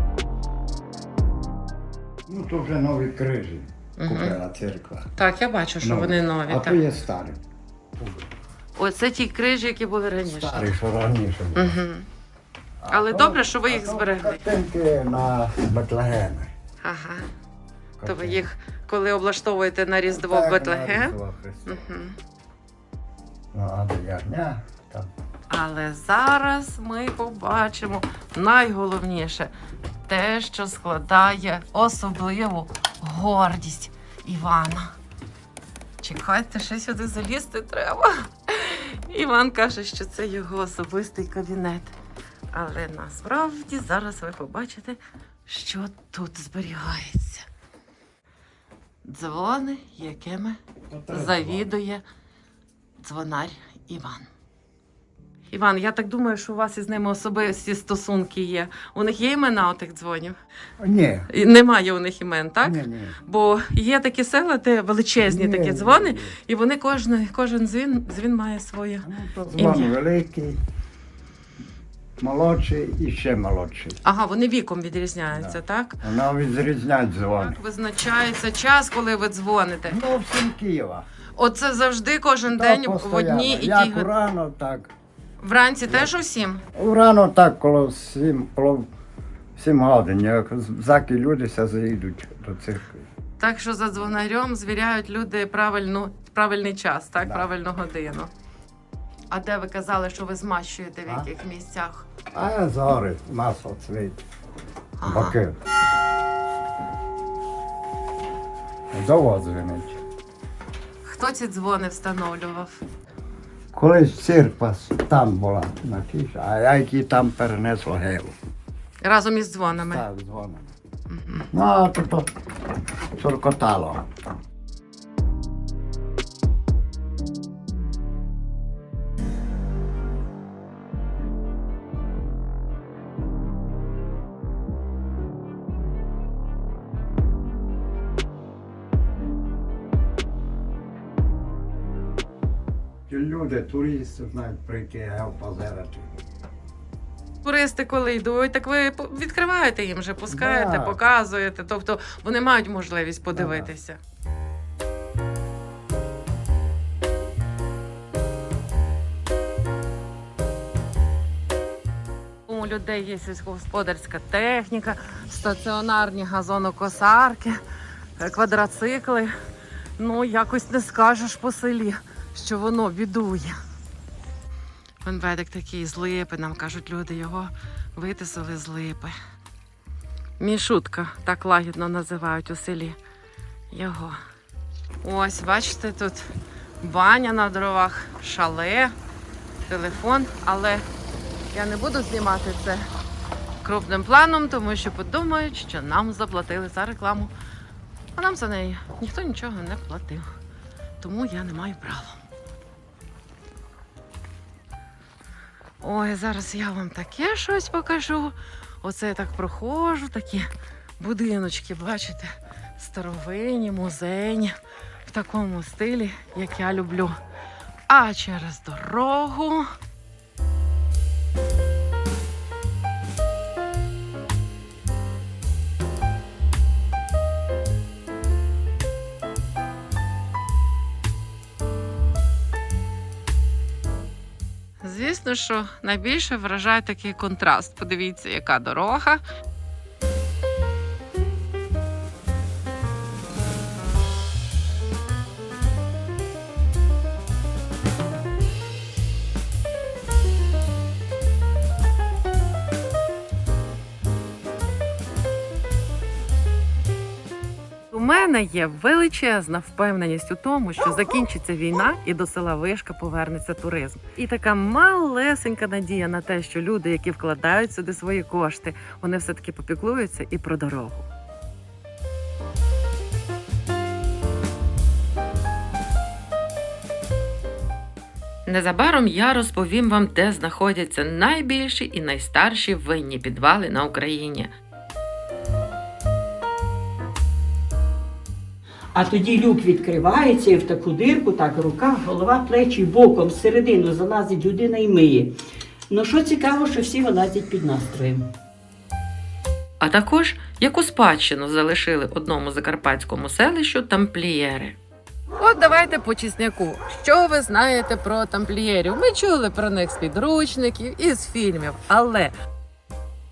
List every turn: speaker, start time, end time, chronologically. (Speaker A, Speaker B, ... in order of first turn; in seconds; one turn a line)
Speaker A: 2.2-5.1
Speaker B: 4.0-4.4
Speaker B: 5.2-6.8
Speaker A: 5.8-7.4
Speaker A: 8.0-8.2
Speaker B: 8.8-10.8
Speaker A: 10.2-11.8
Speaker B: 11.5-12.1
Speaker A: 12.8-16.5
Speaker B: 12.9-14.4
Speaker B: 16.8-17.2
Speaker A: 18.0-18.5
Speaker B: 18.0-21.1
Speaker A: 20.1-21.9
Speaker B: 21.7-22.1
Speaker A: 23.5-25.1
Speaker B: 25.5-29.5
Speaker B: 30.1-34.9
Speaker B: 36.0-41.9
Speaker B: 42.5-47.5
Speaker B: 49.0-50.6
Speaker A: 50.9-51.7
Speaker B: 51.1-52.0
Speaker B: 53.0-54.3
Speaker B: 55.5-60.4
Speaker A: 60.8-61.3
Speaker B: 61.3-69.9
Speaker A: 62.6-63.2
Speaker A: 65.2-66.3
Speaker A: 69.0-70.6
Speaker A: 72.2-74.0
Speaker B: 74.0-76.0
Speaker A: 75.3-77.6
Speaker B: 77.4-80.0
Speaker A: 79.9-81.1
Speaker B: 81.4-84.1
Speaker A: 82.5-84.9
Speaker B: 85.4-86.6
Speaker A: 85.8-86.1
Speaker A: 86.7-88.9
Speaker A: 89.5-93.1
Speaker B: 93.4-98.3
Speaker A: 97.2-97.5
Speaker B: 99.3-102.1
Speaker A: 102.3-104.2
Speaker B: 105.0-105.3
Speaker A: 105.0-105.6
Speaker A: 108.9-110.0
Speaker B: 111.0-112.8
Speaker A: 113.7-118.3
Speaker B: 119.0-120.0
Speaker A: 119.7-120.7
Speaker B: 121.1-121.5
Speaker A: 121.5-122.3
Speaker A: 123.2-124.1
Speaker A: 143.1-146.1
Speaker B: 147.4-154.0
Speaker A: 150.3-151.0
Speaker A: 153.3-153.7
Speaker B: 162.5-167.6
Speaker B: 168.2-169.3
Speaker B: 170.0-173.6
Speaker B: 175.0-179.2
Speaker B: 180.4-183.0
Speaker B: 183.7-184.2
Speaker B: 185.0-186.3
Speaker B: 186.8-188.9
Speaker B: 189.7-190.8
Speaker B: 191.5-192.9
Speaker B: 193.6-197.3
Speaker B: 198.1-200.3
Speaker B: 201.0-202.2
Speaker B: 205.8-214.6
Speaker B: 215.1-217.2
Speaker B: 217.9-219.7
Speaker B: 234.8-239.2
Speaker B: 257.9-271.1
Speaker B: 278.4-284.5
Speaker C: 288.9-295.3
Speaker C: 295.9-298.3
Speaker B: 299.8-304.8
Speaker B: 305.4-312.3